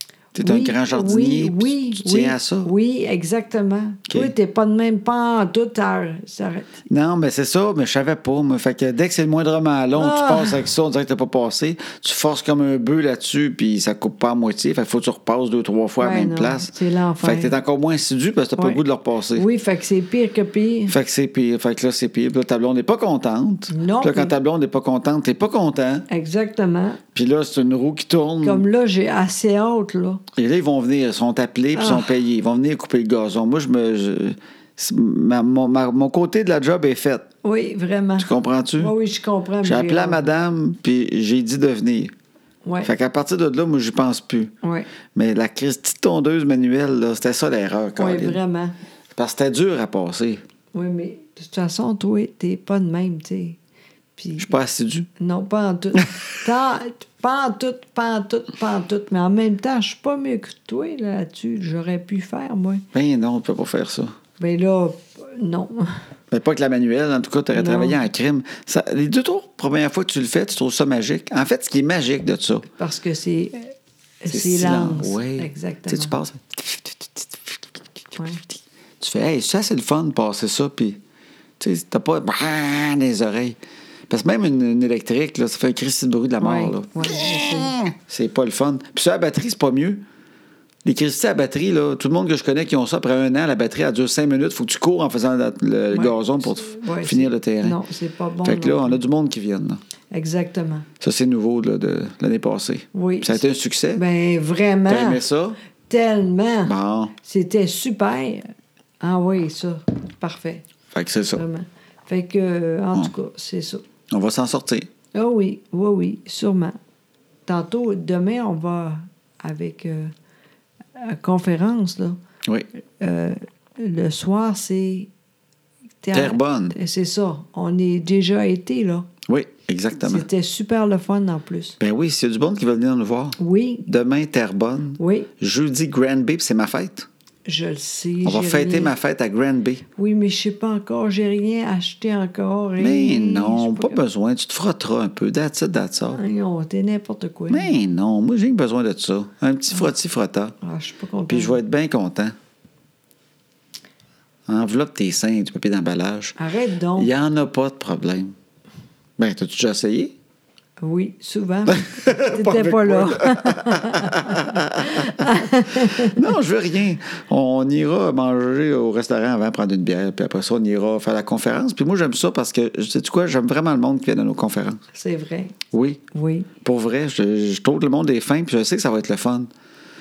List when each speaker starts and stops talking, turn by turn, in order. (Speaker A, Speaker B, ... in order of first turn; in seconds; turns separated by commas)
Speaker A: 0.3-2.7, Speaker B: 0.4-6.7, Speaker A: 4.1-4.3, Speaker A: 6.9-19.5, Speaker B: 9.9-10.7, Speaker B: 16.0-17.6, Speaker B: 19.4-20.9, Speaker A: 20.9-26.1, Speaker B: 23.7-24.3, Speaker B: 26.1-27.0, Speaker A: 27.1-28.6, Speaker B: 28.4-30.2, Speaker A: 30.4-37.3, Speaker B: 31.8-32.1, Speaker B: 37.4-40.3, Speaker A: 38.2-39.0, Speaker A: 39.6-42.1, Speaker B: 42.6-42.9, Speaker A: 42.8-44.5, Speaker B: 44.6-44.9, Speaker A: 45.1-48.4, Speaker B: 48.0-48.8, Speaker A: 49.1-50.4, Speaker B: 50.7-53.6, Speaker B: 54.2-54.5, Speaker A: 54.4-55.1, Speaker B: 55.2-62.8, Speaker A: 62.9-64.2, Speaker B: 64.4-66.0, Speaker A: 66.3-72.7, Speaker B: 67.5-68.0, Speaker B: 72.8-76.2, Speaker A: 74.3-81.0, Speaker B: 78.2-78.4, Speaker A: 81.6-83.6, Speaker A: 84.1-90.0, Speaker B: 86.4-87.8, Speaker A: 90.8-97.8, Speaker B: 95.9-99.0, Speaker A: 98.4-99.8, Speaker B: 100.1-100.9, Speaker A: 101.0-104.0, Speaker B: 102.9-103.4, Speaker B: 104.0-105.2, Speaker A: 104.9-105.6, Speaker B: 105.9-108.5, Speaker A: 106.7-107.1, Speaker B: 109.0-110.6, Speaker A: 110.9-111.4, Speaker B: 111.3-113.8, Speaker A: 114.1-114.9, Speaker B: 115.2-116.8, Speaker B: 117.5-120.1, Speaker B: 121.0-122.2, Speaker B: 123.0-125.1, Speaker B: 126.0-129.1, Speaker A: 126.1-126.8, Speaker A: 129.3-130.3, Speaker B: 130.0-131.8, Speaker A: 131.8-137.1, Speaker B: 133.4-133.9, Speaker B: 135.0-135.3, Speaker B: 137.5-138.9, Speaker A: 138.2-139.8, Speaker B: 140.0-144.0, Speaker A: 142.8-146.2, Speaker B: 146.1-147.7, Speaker A: 147.5-150.6, Speaker B: 150.6-151.6, Speaker A: 151.3-152.3, Speaker A: 154.5-156.4, Speaker B: 156.4-157.1, Speaker A: 157.0-158.3, Speaker A: 159.2-160.1, Speaker B: 160.8-166.2, Speaker A: 161.7-174.8, Speaker B: 174.9-175.6, Speaker A: 175.7-176.0, Speaker B: 176.1-176.5, Speaker A: 176.6-179.5